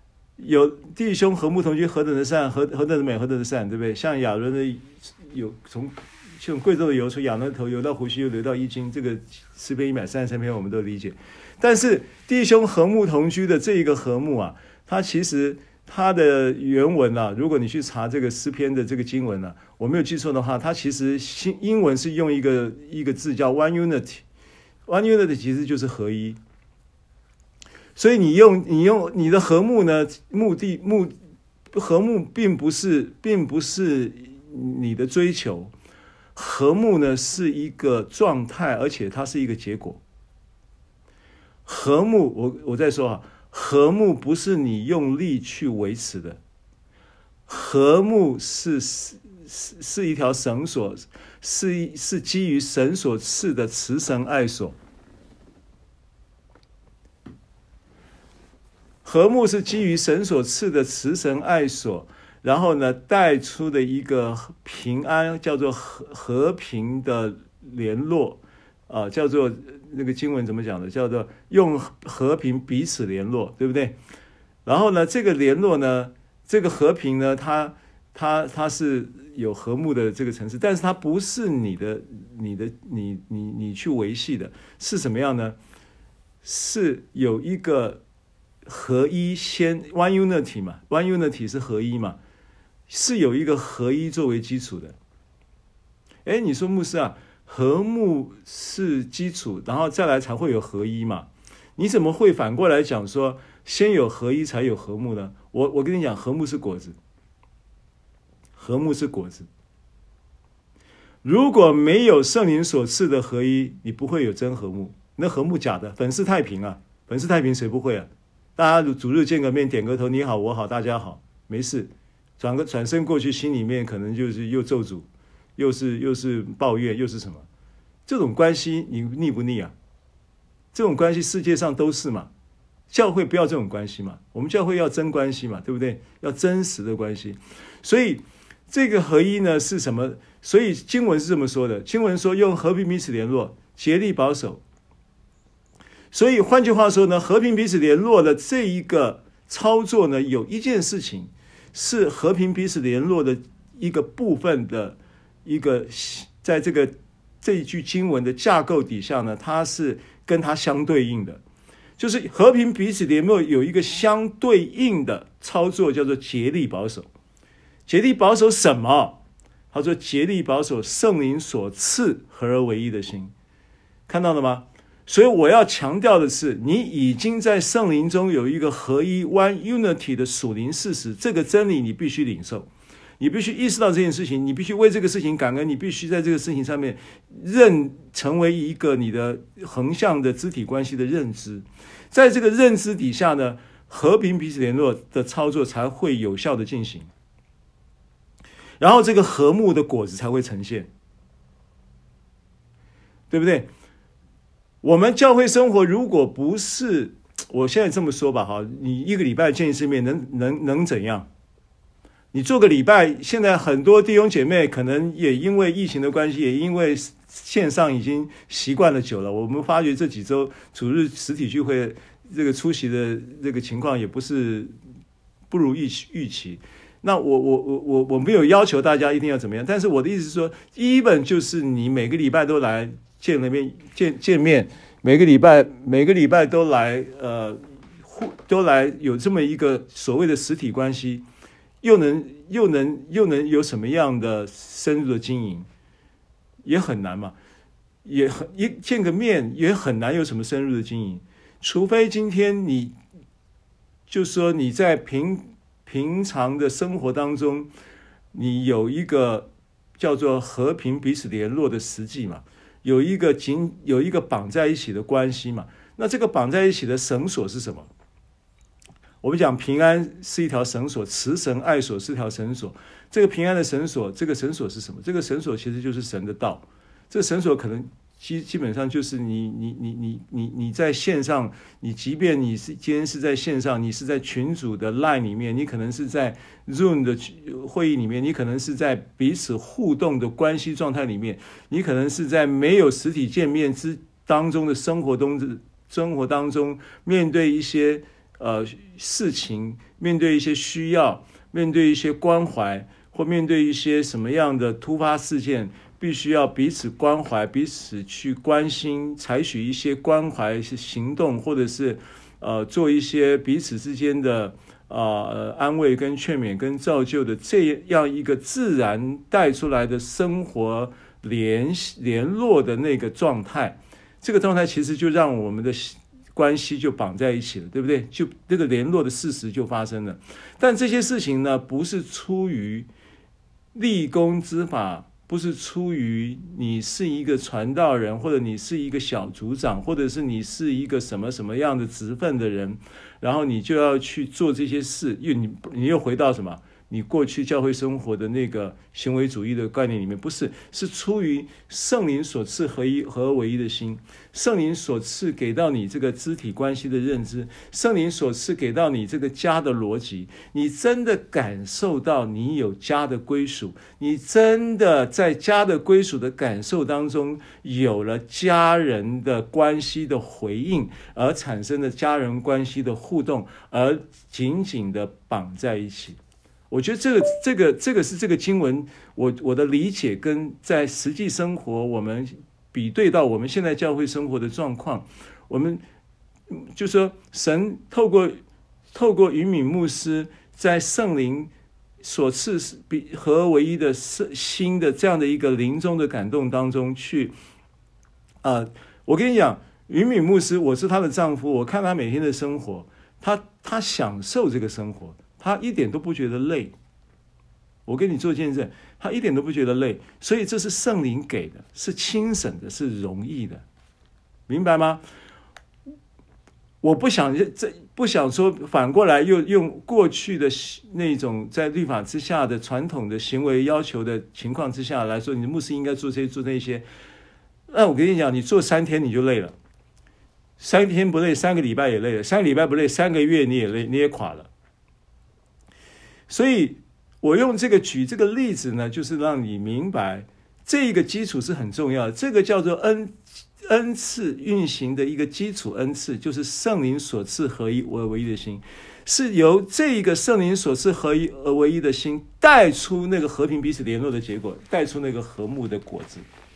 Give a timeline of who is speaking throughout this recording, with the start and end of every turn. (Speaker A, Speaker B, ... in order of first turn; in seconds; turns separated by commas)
Speaker A: 0.4-24.2, Speaker A: 24.9-26.4, Speaker A: 27.9-31.1, Speaker A: 31.7-35.7, Speaker A: 36.3-40.0, Speaker A: 41.6-46.4, Speaker A: 47.5-54.7, Speaker A: 59.0-74.0, Speaker A: 74.6-85.6, Speaker A: 86.4-88.0, Speaker A: 88.6-92.2, Speaker A: 92.9-95.0, Speaker A: 96.2-107.0, Speaker A: 108.6-109.5, Speaker A: 111.2-127.5, Speaker A: 128.1-129.7, Speaker A: 130.7-132.3, Speaker A: 132.9-144.6, Speaker A: 146.1-161.4, Speaker A: 162.0-167.1, Speaker A: 167.9-169.2, Speaker A: 169.7-173.3, Speaker A: 174.1-197.1, Speaker A: 198.8-200.9, Speaker A: 203.3-203.7, Speaker A: 204.8-211.3, Speaker A: 212.3-224.7, Speaker A: 225.5-241.2, Speaker A: 241.8-245.7, Speaker A: 246.6-247.3, Speaker A: 248.0-252.9, Speaker A: 254.1-257.7, Speaker A: 258.3-267.9, Speaker A: 269.2-332.9, Speaker A: 333.7-376.2, Speaker A: 376.7-385.8, Speaker A: 386.5-388.4, Speaker A: 388.9-391.5, Speaker A: 392.0-397.3, Speaker A: 398.4-406.7, Speaker A: 407.9-413.6, Speaker A: 414.5-415.0, Speaker A: 416.8-426.9, Speaker A: 427.7-429.5, Speaker A: 430.6-434.5, Speaker A: 436.3-456.2